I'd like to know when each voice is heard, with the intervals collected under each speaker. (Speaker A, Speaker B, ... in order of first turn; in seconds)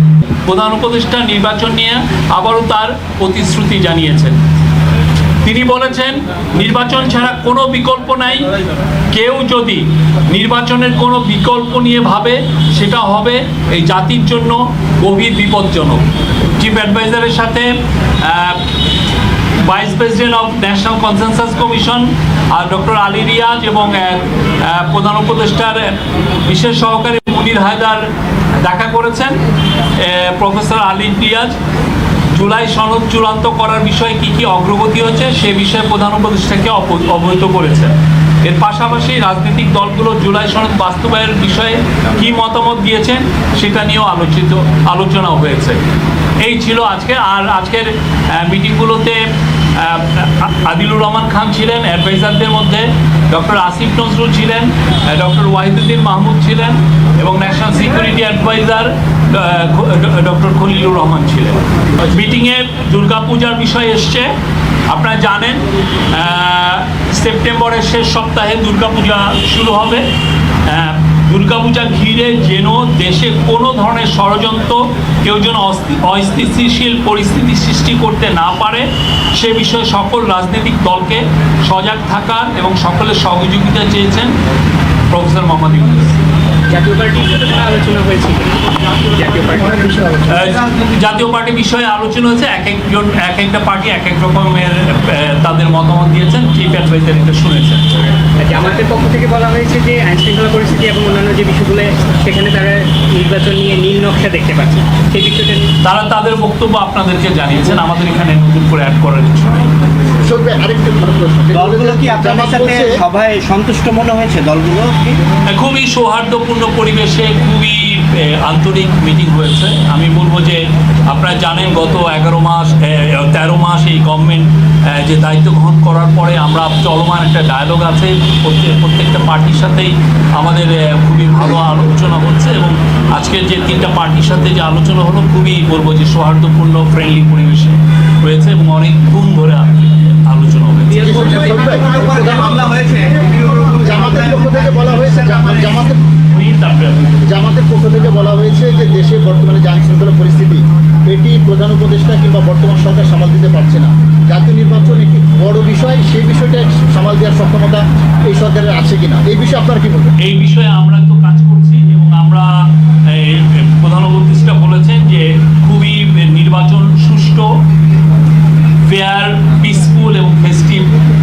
Speaker A: 0.5-4.4, 5.4-8.5, 9.1-18.6, 19.6-29.4, 30.0-31.6, 32.3-45.8, 46.4-49.2, 49.7-64.3, 64.9-70.0, 70.7-84.3, 85.1-86.2, 90.3-97.8, 105.8-109.7, 115.5-141.4, 146.3-147.2, 160.2-167.5, 168.8-171.1
Speaker B: 86.7-89.8, 98.4-105.7, 140.9-141.8
Speaker C: 89.6-90.5, 110.2-113.0, 141.0-142.7, 143.8-146.0, 147.3-160.1
Speaker D: 111.5-115.2, 141.2-145.8